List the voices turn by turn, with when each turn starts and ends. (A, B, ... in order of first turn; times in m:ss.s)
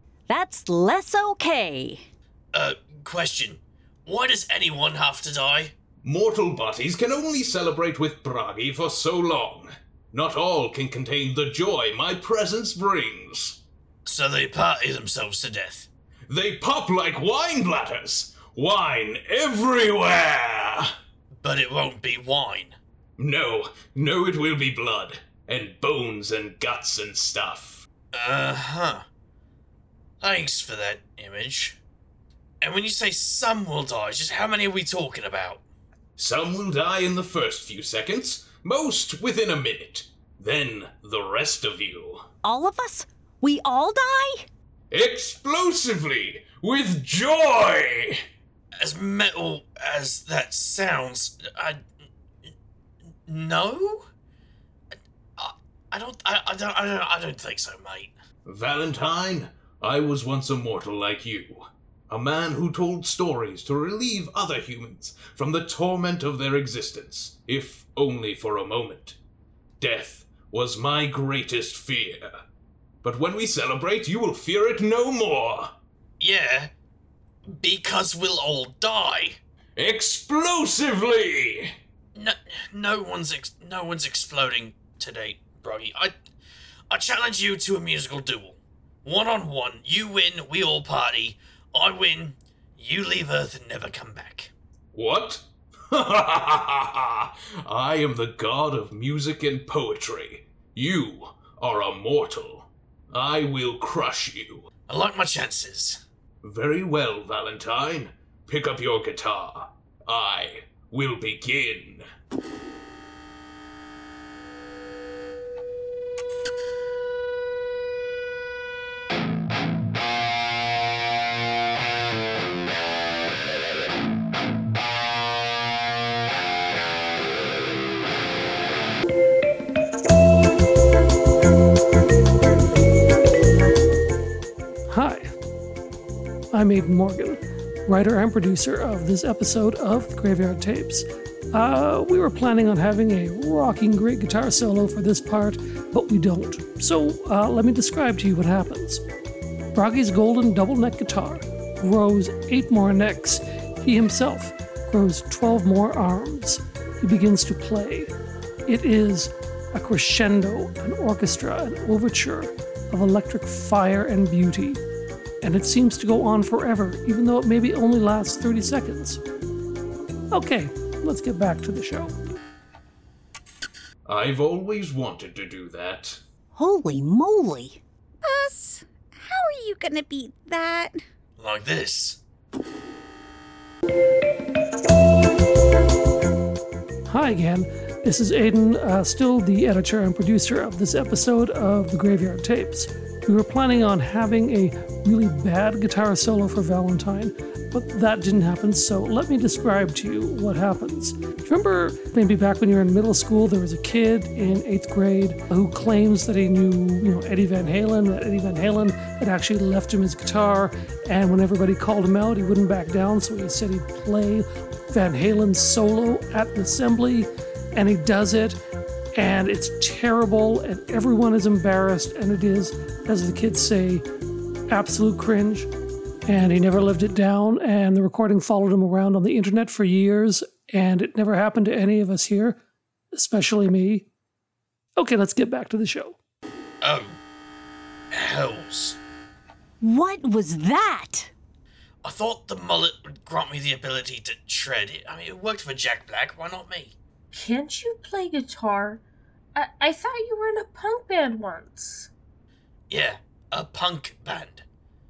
0:00.3-0:02.0 A
0:02.5-0:05.7 B
0:06.0-0:13.6 C
0:14.0-0:15.9 B
0:16.3-0:20.9 C
0:21.4-0:22.8 B
0:23.2-0:27.8 C
0:28.1-0:29.0 B
0:30.2-0:31.8 B
0:32.6-0:35.6 B
0:36.2-0:42.2 C
0:42.4-0:44.4 A
0:44.9-0:48.2 C
0:48.8-0:51.8 B
0:53.3-0:54.1 B
0:55.4-0:58.1 B
0:58.4-1:09.2 C
1:09.8-1:12.4 C
1:13.0-1:15.7 C
1:16.2-1:16.7 B
1:17.5-1:19.4 B
1:19.8-1:21.7 C
1:22.1-1:26.1 B
1:26.9-1:34.5 B
1:34.9-1:44.7 C
1:44.9-1:46.0 B
1:46.4-1:52.0 C
2:14.9-2:15.3 D
2:16.5-2:29.0 D
2:29.7-2:38.1 D
2:38.7-2:44.8 D
2:45.4-2:49.2 D
2:50.3-2:52.1 D
2:54.0-2:56.2 C
2:56.5-2:57.8 A
2:58.2-3:01.0 E
3:01.4-3:02.2 B
3:07.1-3:38.6 D
3:39.2-3:44.0 D
3:44.7-3:45.7 D
3:46.3-3:52.6 D
3:53.1-3:54.1 D
3:55.0-3:56.2 D
3:56.8-3:57.2 B
3:58.1-3:59.0 B
3:59.8-4:01.3 A
4:02.0-4:07.0 B
4:07.3-4:09.0 F
4:09.5-4:12.1 F
4:12.9-4:14.6 B